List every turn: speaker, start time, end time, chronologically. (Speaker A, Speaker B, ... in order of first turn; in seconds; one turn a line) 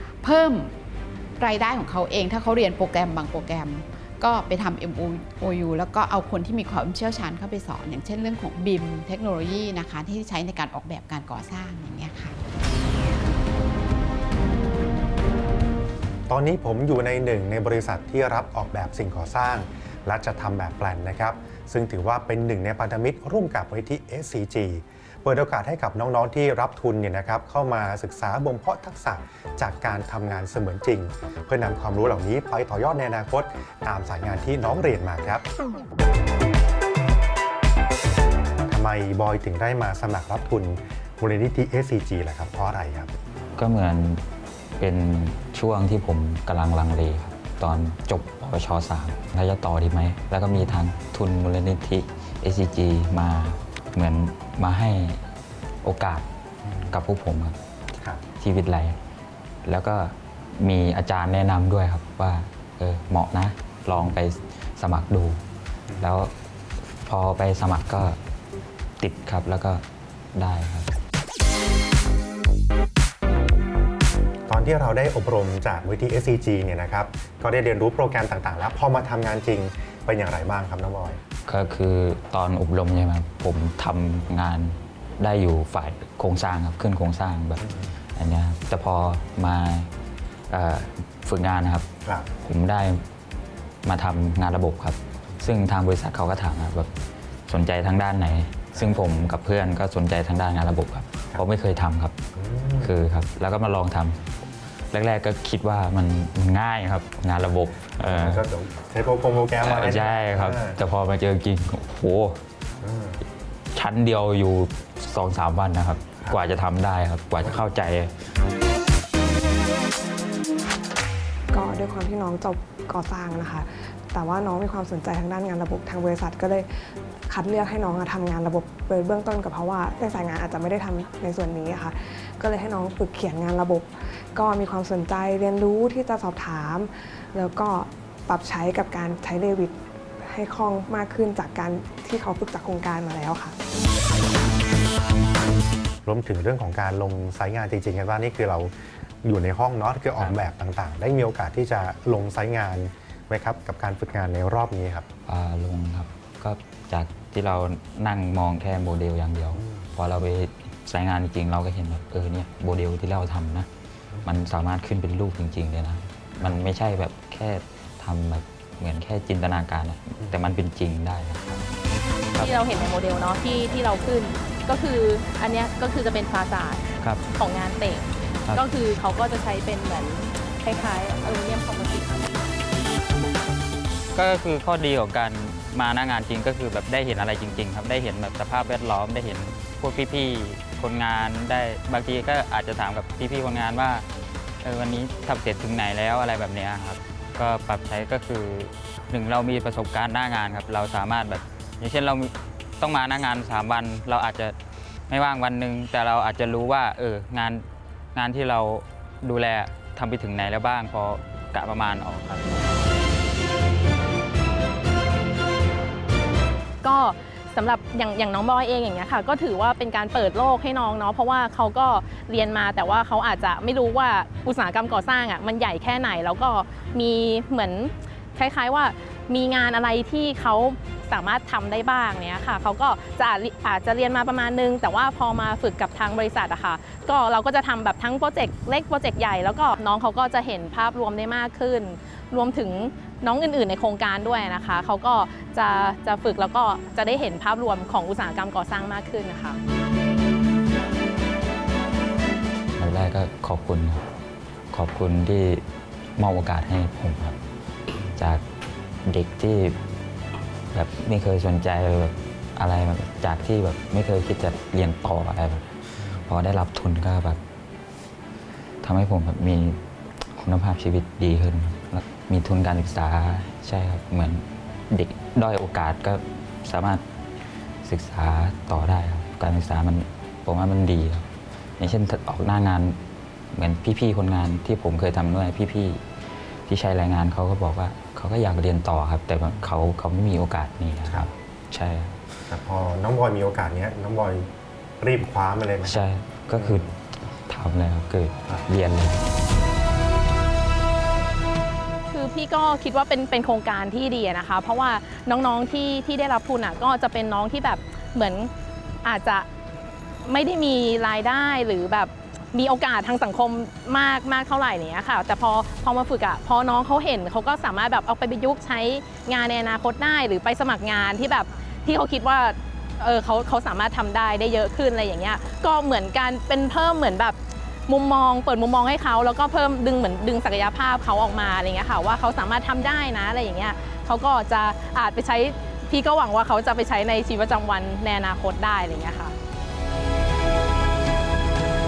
Speaker A: 0.2-0.7
Speaker A: 1.4-12.4
Speaker B: 16.3-35.4
Speaker B: 38.7-43.1
Speaker C: 43.6-44.2
Speaker C: 44.8-55.2
Speaker C: 55.8-56.3
Speaker C: 56.9-57.5
Speaker C: 58.4-59.0
Speaker C: 59.6-65.4
Speaker C: 66.0-68.2
Speaker C: 69.0-69.8
Speaker C: 70.3-70.9
Speaker B: 74.5-81.2
Speaker C: 81.5-87.6
Speaker C: 88.2-89.9
Speaker C: 90.5-91.9
Speaker C: 92.4-93.0
Speaker C: 93.8-96.9
Speaker C: 97.5-102.1
Speaker B: 98.8-99.0
Speaker B: 102.3-102.9
Speaker C: 102.8-104.2
Speaker C: 104.9-108.4
Speaker B: 108.0-110.8
Speaker C: 109.6-112.4
Speaker B: 112.8-113.2
Speaker C: 113.7-118.1
Speaker D: 121.5-126.7
Speaker D: 127.3-143.5
Speaker B: 146.0-148.7
Speaker B: 149.2-155.1
Speaker C: 155.2-163.7
Speaker C: 164.2-171.7
Speaker C: 172.3-172.6
Speaker E: 172.4-182.3
Speaker C: 178.5-178.7
Speaker C: 184.1-194.1
Speaker C: 194.6-204.6
Speaker C: 205.1-212.8
Speaker E: 216.8-249.6
Speaker C: 252.8-254.0
Speaker C: 254.7-255.6
Speaker C: 256.2-257.4
Speaker C: 258.1-258.4
Speaker C: 259.0-259.8
Speaker C: 260.7-267.4
Speaker C: 268.8-277.0
Speaker C: 277.8-281.3
Speaker C: 281.8-283.0
Speaker C: 283.5-286.0
Speaker C: 286.6-292.2
Speaker B: 292.5-294.5
Speaker B: 295.0-296.0
Speaker C: 295.8-296.9
Speaker B: 296.5-296.8
Speaker C: 297.5-299.2
Speaker E: 302.1-308.5
Speaker E: 309.0-309.5
Speaker E: 310.2-327.4
Speaker E: 327.9-339.3